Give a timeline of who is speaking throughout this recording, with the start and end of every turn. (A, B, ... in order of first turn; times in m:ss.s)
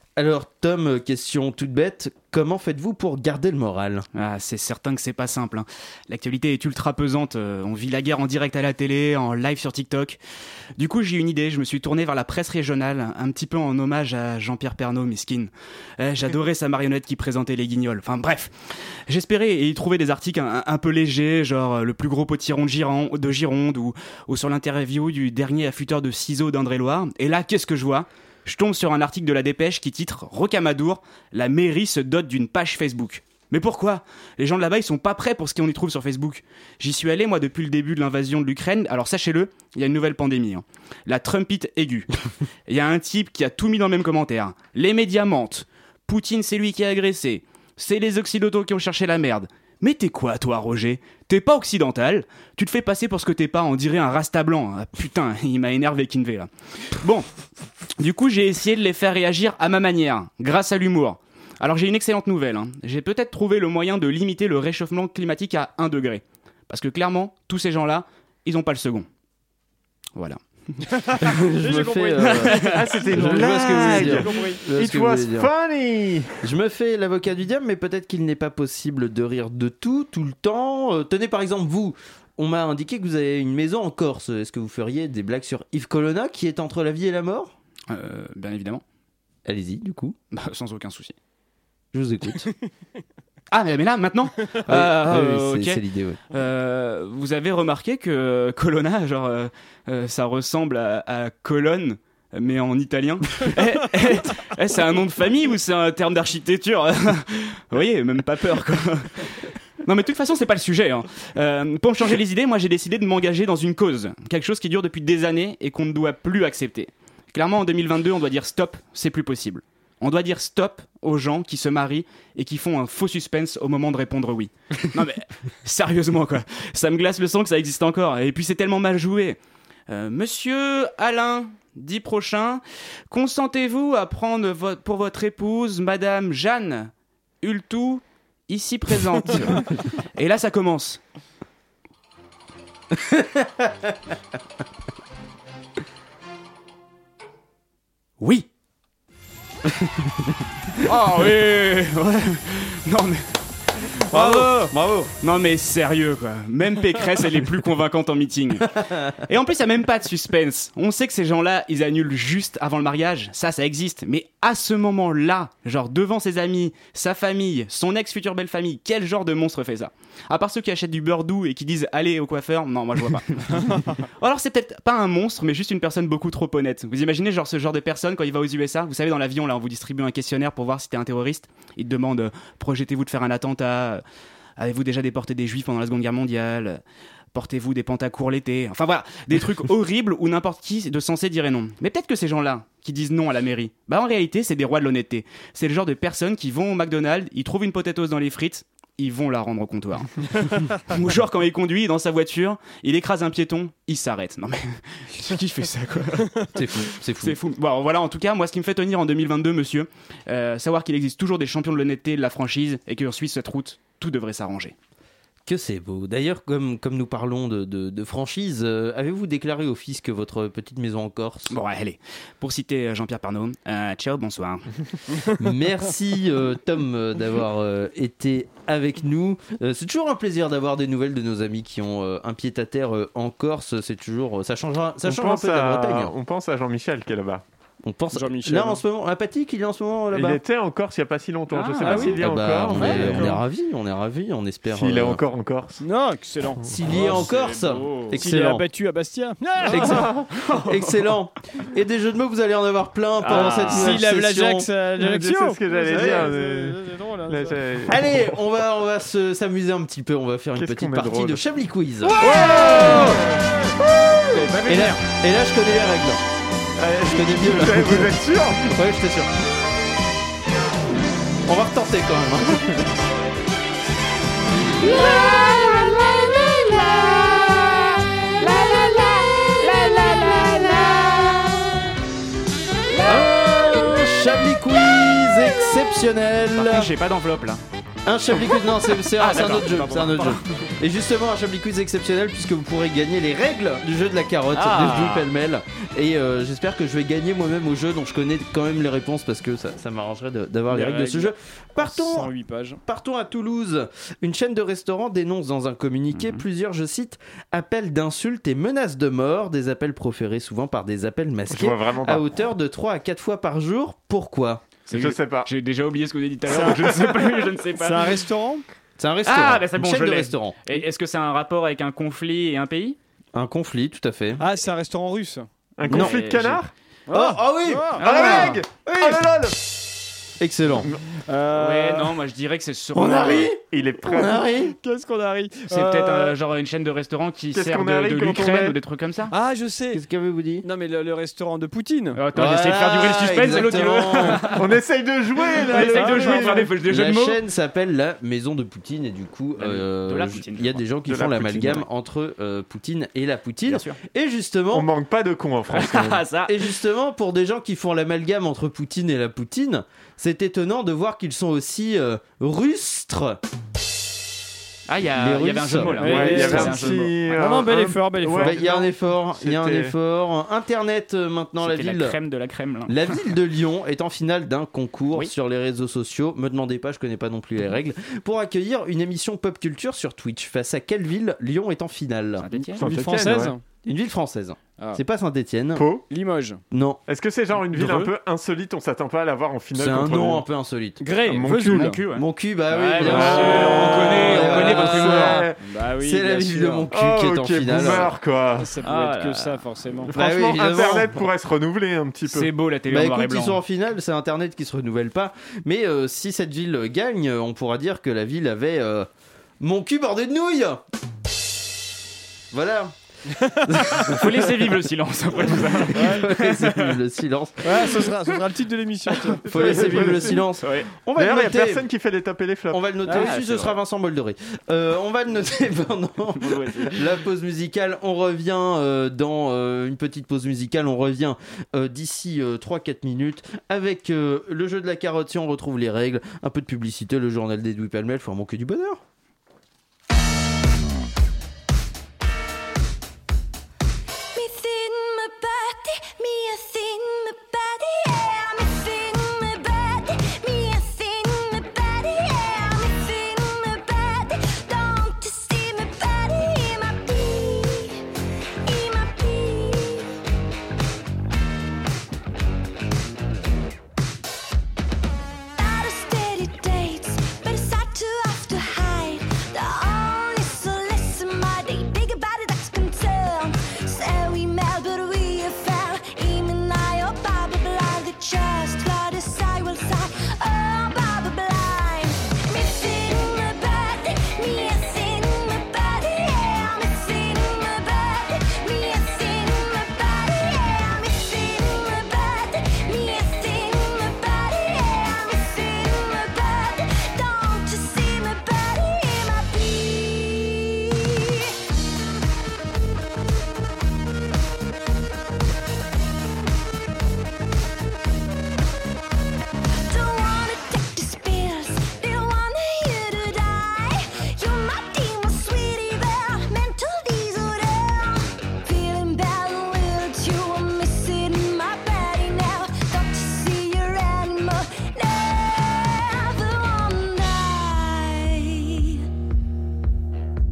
0:00.2-0:04.1 A
0:04.1-0:10.2 B
0:10.8-0:18.5 B
0:19.1-0:42.1 B
0:42.7-0:57.3 B
0:58.0-1:09.1 B
1:10.2-1:11.1 B
1:11.2-1:15.5 A
1:11.6-1:14.6 C
1:12.3-1:12.9 B
1:12.6-1:16.4 D
1:16.4-1:27.5 A
1:27.9-1:28.8 B
1:29.5-1:30.2 A
1:30.3-1:31.2 B
1:31.9-1:32.5 A
1:33.5-2:16.9 B
1:34.7-1:36.2 A
2:17.4-2:21.0 B
2:22.9-2:23.9 A
2:28.2-2:28.5 B
2:29.8-2:30.4 A
2:30.8-2:33.2 B
2:34.0-3:04.0 B
2:34.1-2:35.1 A
3:04.6-3:06.8 B
3:07.3-3:34.8 B
3:26.5-3:27.4 A
3:35.5-3:41.6 A
3:41.5-3:45.3 B
3:45.4-3:56.1 A
3:55.0-3:57.4 D
3:57.8-4:00.4 A
3:58.1-3:58.8 C
4:00.1-4:03.4 D
4:01.5-4:02.2 B
4:01.8-4:02.2 C
4:02.1-4:05.2 A
4:02.8-4:03.4 C
4:04.7-4:05.8 D
4:05.8-4:07.2 C
4:06.7-4:08.6 A
4:07.0-4:08.2 B
4:08.1-4:10.1 C
4:09.7-4:14.7 A
4:09.8-4:10.3 D
4:10.5-4:10.8 B
4:13.2-4:14.0 B
4:13.3-4:17.8 C
4:15.0-4:18.1 D
4:17.9-4:23.2 A
4:20.6-4:21.4 D
4:22.2-4:23.5 C
4:22.3-4:23.2 D
4:22.3-4:23.1 B
4:24.3-4:25.0 C
4:24.6-4:26.2 A
4:26.8-4:28.6 D
4:27.1-4:29.3 A
4:31.5-4:32.9 A
4:34.8-4:35.5 A
4:34.9-4:36.6 E
4:38.5-4:39.0 B
4:38.7-4:39.1 E
4:39.5-4:41.0 B
4:40.2-4:40.4 A
4:43.0-4:46.9 A
4:43.0-4:43.3 B
4:46.6-4:47.6 B
4:48.0-5:02.3 A
4:49.1-4:50.4 B
4:54.5-4:55.3 B
5:00.7-5:02.8 C
5:02.8-5:14.6 A
5:06.1-5:06.4 B
5:11.5-5:12.3 D
5:14.9-5:18.2 B
5:14.9-5:15.5 D
5:16.6-5:17.3 D
5:17.8-5:18.6 C
5:19.0-5:20.6 A
5:19.2-5:23.0 B
5:23.3-5:24.4 A
5:24.4-5:25.5 C
5:25.8-5:26.7 D
5:25.8-5:26.6 B
5:25.9-5:26.2 A
5:27.1-5:28.6 C
5:27.1-5:29.6 A
5:28.0-5:29.5 D
5:30.4-5:30.9 A
5:31.3-5:32.2 C
5:31.5-5:33.5 B
5:32.9-5:34.8 A
5:33.6-5:34.4 D
5:34.8-5:36.3 C
5:35.7-5:39.3 B
5:37.5-5:38.8 D
5:39.3-5:40.0 C
5:39.9-5:40.7 A
5:40.6-5:42.2 C
5:42.2-5:44.5 B
5:42.3-5:44.4 A
5:44.2-5:44.6 C
5:44.5-5:46.6 D
5:45.5-5:46.7 C
5:45.6-5:47.4 B
5:46.8-5:54.9 A
5:49.6-5:50.8 B
5:51.1-5:51.8 D
5:53.7-5:54.0 B
5:54.7-5:56.2 D
5:55.7-5:56.7 B
5:56.5-6:03.4 A
6:04.9-6:07.2 B
6:05.1-6:07.0 A
6:06.0-6:08.6 C
6:06.0-6:10.0 D
6:08.4-6:12.2 A
6:11.6-6:13.0 B
6:12.9-6:22.5 A
6:22.4-6:22.8 B
6:22.8-6:23.6 C
6:22.8-6:23.5 D
6:23.9-6:25.9 A
6:25.8-6:26.0 D
6:26.1-6:26.6 C
6:26.7-6:27.0 A
6:27.1-6:30.4 D
6:27.7-6:28.1 C
6:29.8-6:31.0 A
6:31.0-6:32.0 C
6:31.3-6:32.0 D
6:31.5-6:35.4 B
6:32.1-6:38.1 A
6:33.0-6:35.6 D
6:34.6-6:36.9 C
6:36.9-6:38.7 D
6:38.6-6:40.1 C
6:38.8-6:39.6 B
6:40.1-6:42.5 D
6:40.1-6:41.2 A
6:42.3-6:43.6 B
6:42.9-6:49.1 A
6:49.6-6:50.8 A
6:52.5-6:54.7 A
6:53.4-6:54.0 C
6:54.0-6:57.0 B
6:55.4-6:58.1 A
6:55.9-6:56.2 C
6:57.6-7:00.4 C
6:59.4-7:01.9 A
6:59.5-7:00.5 D
7:00.6-7:00.9 B
7:01.2-7:02.8 D
7:02.7-7:19.0 A
7:03.1-7:03.8 B
7:06.4-7:07.1 B
7:24.3-7:38.0 E
7:38.6-7:40.1 E
7:45.6-8:21.5 E
8:29.8-8:49.1 E